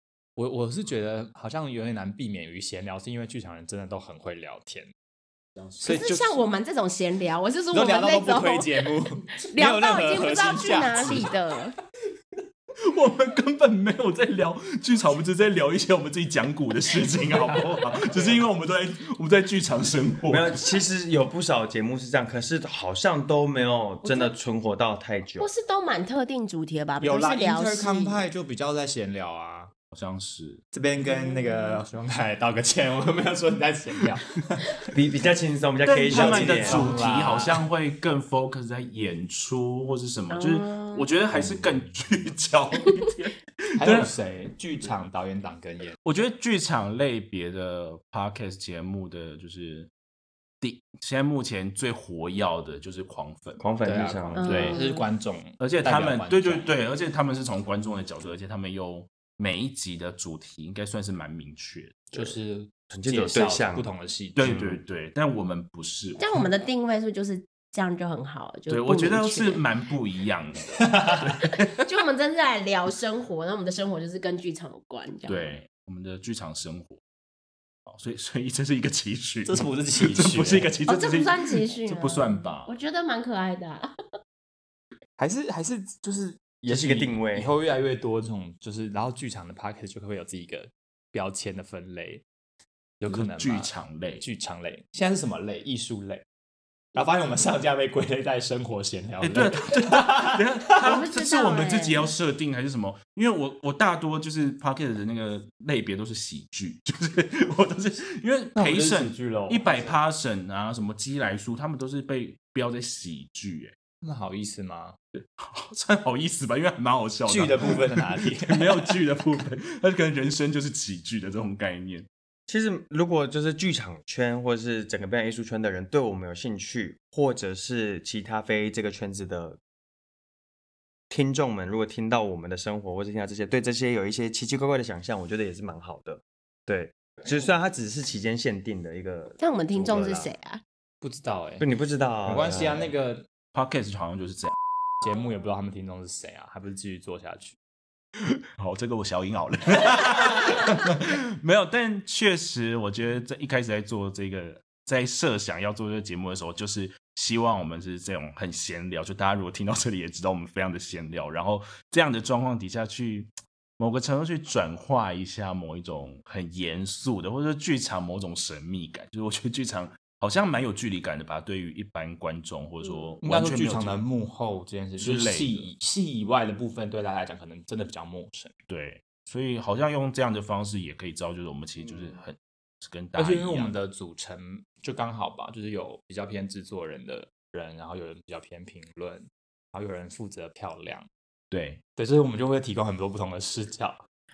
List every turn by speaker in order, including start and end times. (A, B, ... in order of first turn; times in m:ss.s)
0:00.4-0:04.9 A
0:05.6-0:06.0 B
0:05.8-0:06.4 A
0:05.8-0:11.7 C
0:07.7-0:11.3 A
0:12.9-0:20.6 B
0:20.3-0:25.5 D
0:24.0-0:24.4 C
0:25.4-0:28.3 C
0:27.0-0:29.7 A
0:29.9-0:30.6 B
0:30.7-0:34.8 A
0:31.0-0:31.8 C
0:34.9-0:36.9 D
0:35.8-0:44.1 B
0:36.1-0:37.6 A
0:40.3-0:41.1 C
0:41.3-0:42.0 A
0:43.8-0:46.0 A
0:46.0-0:49.9 B
0:50.6-0:53.6 B
0:53.6-0:54.7 D
0:53.8-0:56.7 A
0:54.4-0:55.0 C
0:54.4-0:54.8 B
0:55.6-1:02.0 B
1:02.1-1:04.6 A
1:02.9-1:03.9 D
1:04.3-1:06.2 B
1:04.4-1:04.8 D
1:06.2-1:09.6 C
1:08.7-1:11.8 B
1:10.8-1:11.2 A
1:11.8-1:15.5 C
1:15.2-1:17.0 B
1:17.8-1:22.7 B
1:19.5-1:20.7 A
1:20.8-1:23.9 C
1:25.2-1:32.2 A
1:26.6-1:27.5 D
1:33.0-1:36.2 A
1:33.1-1:34.2 B
1:36.9-1:40.6 A
1:39.2-1:53.8 B
1:40.8-1:42.1 C
1:48.5-1:50.0 A
1:54.0-1:55.0 A
1:55.1-2:02.1 B
1:57.2-1:58.9 A
2:02.5-2:09.6 D
2:11.1-2:20.3 D
2:19.4-2:20.6 C
2:21.0-2:21.7 A
2:21.6-2:22.9 D
2:22.2-2:23.2 A
2:23.5-2:24.5 B
2:25.0-2:27.6 A
2:28.6-2:54.0 B
2:53.2-2:58.5 A
2:55.0-2:55.7 B
2:58.7-3:03.7 B
3:03.1-3:11.1 A
3:11.5-3:11.8 B
3:12.0-3:14.0 A